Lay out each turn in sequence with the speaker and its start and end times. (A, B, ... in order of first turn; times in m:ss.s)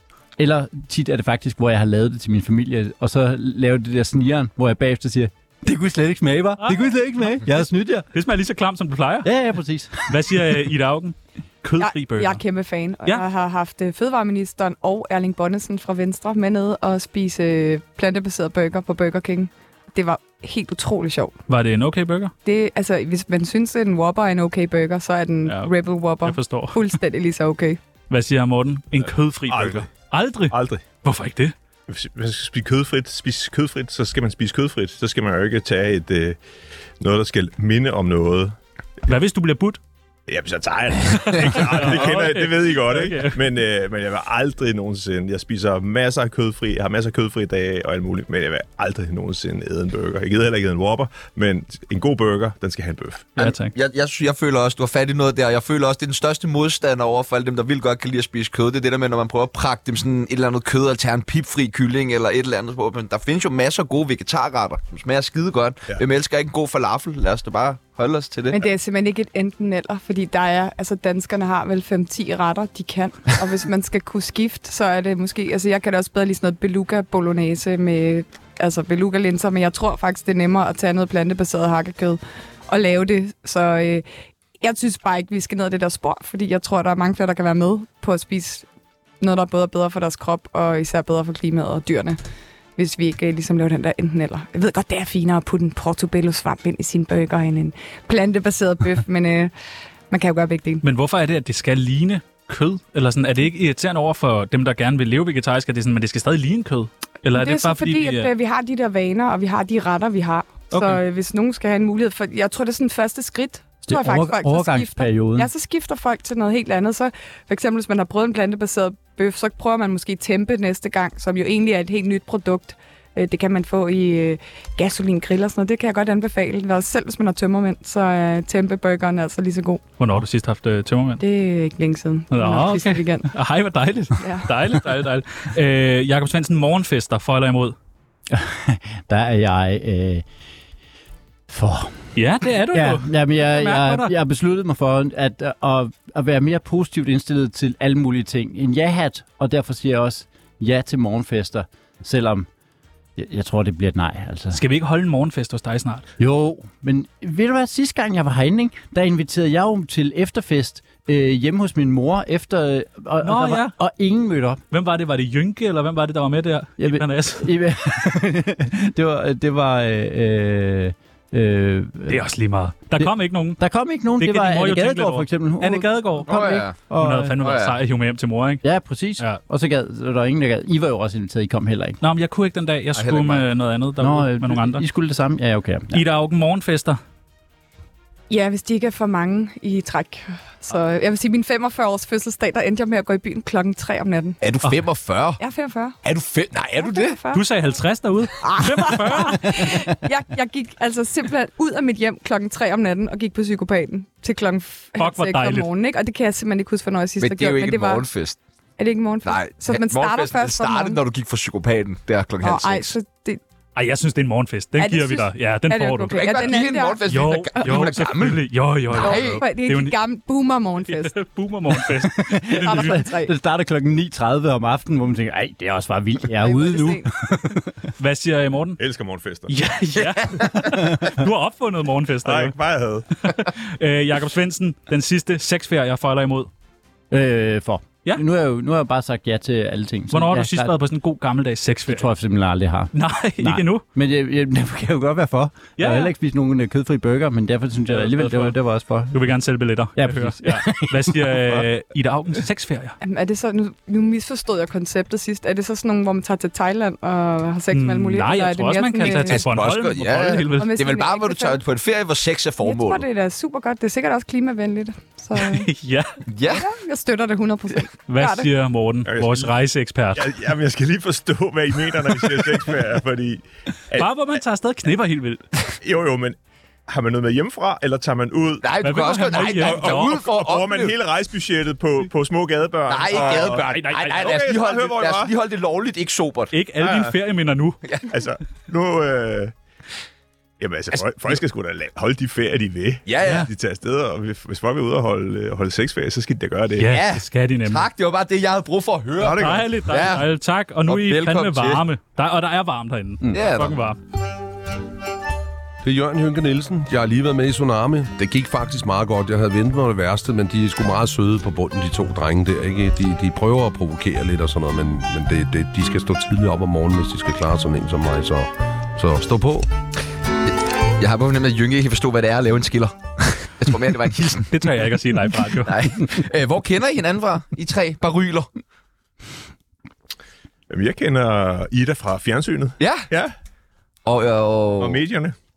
0:00.4-0:08.1 A
0:06.6-0:07.0 B
0:08.1-0:09.3 B
0:09.2-0:10.6 A
0:10.0-0:12.4 B
0:11.8-0:21.3 C
0:21.5-0:22.3 B
0:22.4-0:27.8 C
0:25.4-0:26.8 B
0:28.1-0:31.5 B
0:29.0-0:29.9 D
0:30.5-0:30.8 D
0:31.9-0:36.4 D
0:37.0-0:38.6 D
0:39.1-0:39.8 B
0:40.3-0:53.3 D
0:41.4-0:43.4 B
0:53.4-0:53.7 B
0:53.4-1:08.6 E
1:08.5-1:24.0 C
1:24.6-1:28.6 C
1:29.2-1:32.2 C
1:32.8-1:39.5 C
1:40.1-1:40.8 C
1:40.8-1:48.3 B
1:47.3-2:09.8 C
1:50.7-1:51.0 B
1:53.9-1:55.5 A
2:10.0-2:11.2 B
2:11.2-2:13.3 C
2:12.3-2:17.8 B
2:14.2-2:14.5 C
2:18.3-2:20.2 A
2:21.5-2:22.1 A
2:22.1-2:24.1 B
2:22.7-2:32.5 A
2:33.2-2:34.6 A
2:34.5-2:36.0 B
2:36.2-2:44.6 A
2:43.2-2:43.7 B
2:44.7-2:47.5 B
2:46.8-2:52.2 A
2:52.1-2:53.6 B
2:53.0-2:57.4 A
2:54.2-2:58.6 B
2:56.3-2:56.8 E
2:57.4-2:57.8 E
2:58.6-3:02.0 A
3:02.0-3:04.8 B
3:02.9-3:03.4 E
3:04.0-3:06.0 A
3:05.9-3:07.0 B
3:08.3-3:14.4 C
3:14.4-3:15.4 E
3:15.4-3:16.0 C
3:16.0-3:17.2 E
3:16.8-3:17.4 C
3:17.3-3:19.6 B
3:18.4-3:28.0 C
3:25.0-3:25.7 B
3:27.2-3:28.4 E
3:28.8-3:31.0 C
3:29.2-3:32.9 E
3:32.4-3:33.4 C
3:33.7-3:40.0 B
3:34.8-3:37.1 C
3:36.1-3:39.4 E
3:39.0-3:41.2 C
3:40.9-3:43.0 B
3:41.7-3:47.7 A
3:42.6-3:43.3 C
3:46.4-3:47.1 C
3:48.0-3:48.8 B
3:48.8-3:49.5 D
3:49.5-3:52.6 B
3:50.7-3:51.1 A
3:52.2-3:53.1 D
3:53.2-3:56.5 B
3:57.1-4:00.7 A
4:00.1-4:02.0 B
4:01.9-4:09.2 A
4:02.9-4:03.8 B
4:05.8-4:06.1 B
4:07.9-4:08.6 B
4:09.1-4:13.0 B
4:10.0-4:11.7 A
4:13.0-4:19.4 C
4:17.7-4:20.8 B
4:19.2-4:23.0 E
4:20.6-4:21.6 C
4:22.6-4:25.7 C
4:25.4-4:26.1 B
4:26.3-4:26.7 E
4:26.5-4:28.5 C
4:28.1-4:30.3 B
4:29.0-4:29.5 D
4:30.2-4:34.1 D
4:33.9-4:35.4 B
4:35.8-4:45.3 D
4:38.6-4:40.9 E
4:38.8-4:40.2 B
4:42.9-4:46.5 E
4:43.1-4:44.4 B
4:46.5-4:47.8 B
4:46.8-4:47.1 D
4:48.1-4:49.5 D
4:50.6-4:57.0 D
4:53.0-4:53.5 E
4:56.8-4:57.8 B
4:56.9-5:00.2 E
4:59.2-4:59.6 D
4:59.3-5:04.0 B
5:00.8-5:01.8 E
5:03.3-5:03.8 E
5:05.8-5:19.7 F
5:21.0-5:24.7 E
5:24.5-5:25.7 B
5:25.5-5:28.5 E
5:30.7-5:33.3 D
5:32.8-5:33.1 E
5:34.0-5:35.0 E
5:34.8-5:35.3 D